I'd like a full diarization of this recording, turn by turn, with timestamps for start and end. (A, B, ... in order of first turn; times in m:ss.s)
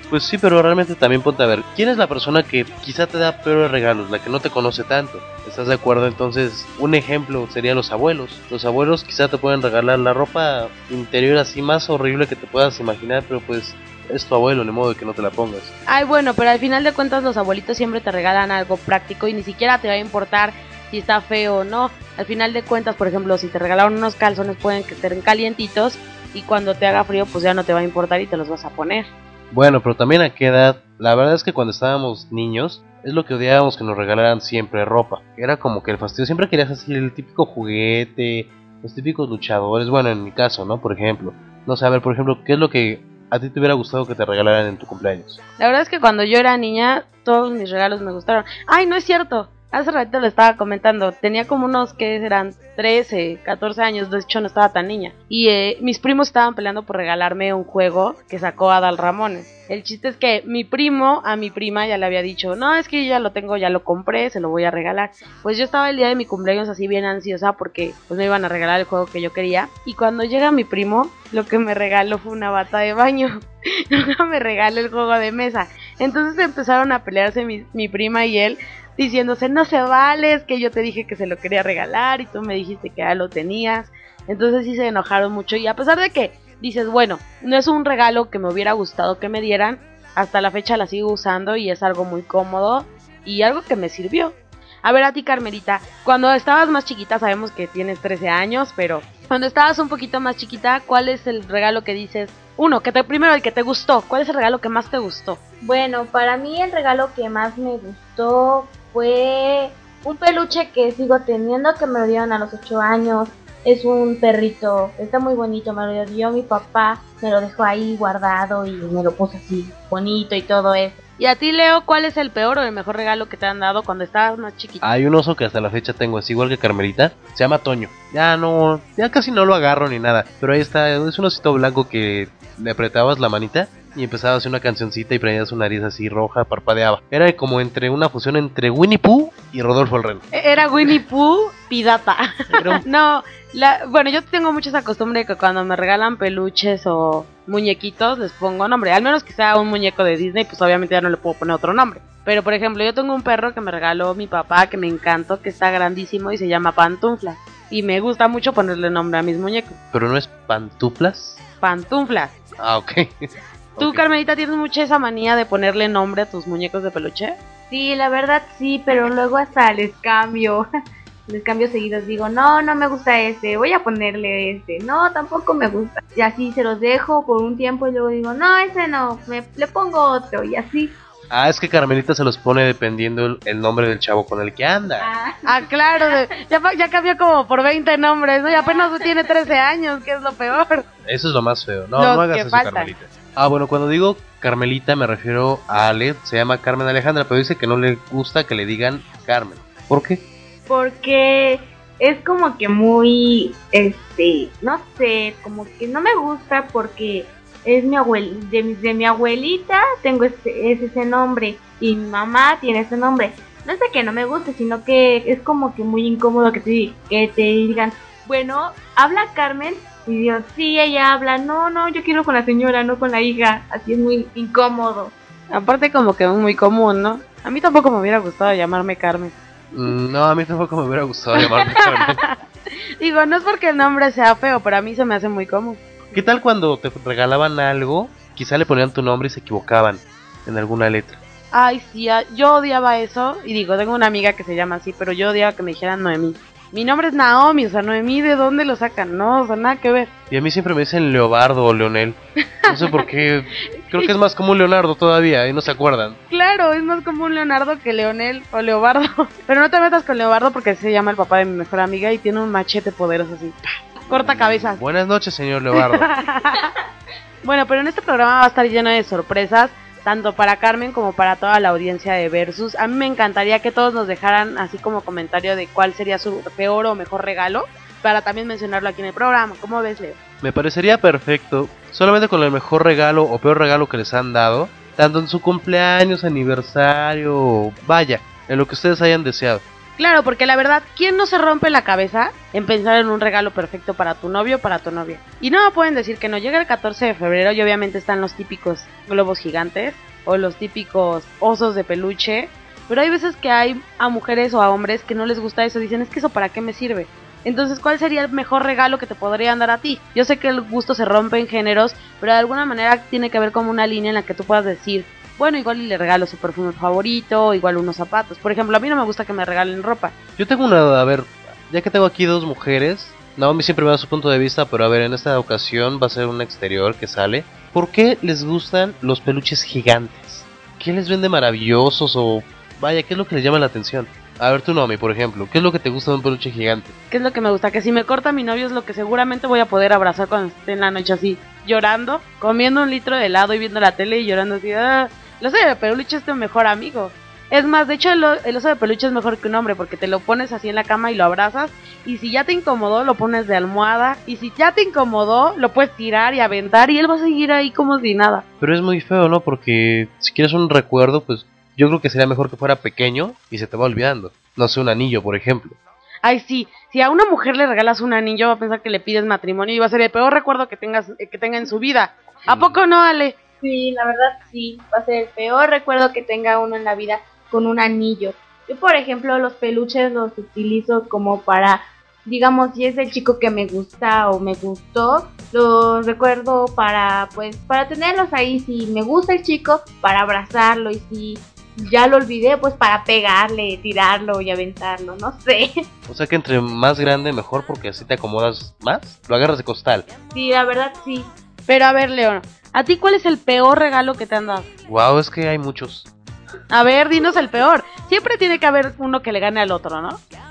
0:00.1-0:15.7 A
0:15.9-0:29.1 B
0:29.5-0:45.4 A
0:45.6-1:45.4 B
1:45.6-2:01.0 C
2:01.2-2:04.8 B
2:04.8-2:20.2 A
2:20.3-2:39.8 B
2:22.5-2:22.8 A
2:39.9-2:41.4 A
2:41.6-2:42.3 B
2:42.6-2:44.0 A
2:43.8-2:47.4 B
2:47.7-2:50.6 C
2:51.3-3:01.0 C
3:01.3-3:05.1 A
3:05.0-3:06.2 C
3:05.5-3:10.9 B
3:08.5-3:08.9 C
3:11.0-3:20.2 A
3:12.0-3:12.9 B
3:20.7-3:45.1 C
3:45.5-3:49.4 B
3:49.7-3:52.2 A
3:51.4-3:52.3 B
3:53.0-3:55.8 B
3:56.1-4:01.2 A
4:01.5-4:10.1 B
4:10.3-4:16.2 A
4:12.6-4:13.0 B
4:16.3-4:24.8 B
4:24.2-4:26.1 A
4:25.8-4:26.7 B
4:27.4-4:40.2 B
4:40.4-4:49.6 A
4:50.0-5:20.1 B
5:20.4-5:36.9 A
5:37.1-5:58.4 B
5:58.6-6:05.8 A
6:06.2-6:13.4 B
6:12.5-6:12.8 A
6:13.6-6:35.8 C
6:36.1-6:40.1 A
6:40.3-6:41.3 C
6:41.7-6:44.7 B
6:44.9-6:46.1 A
6:46.7-6:50.2 B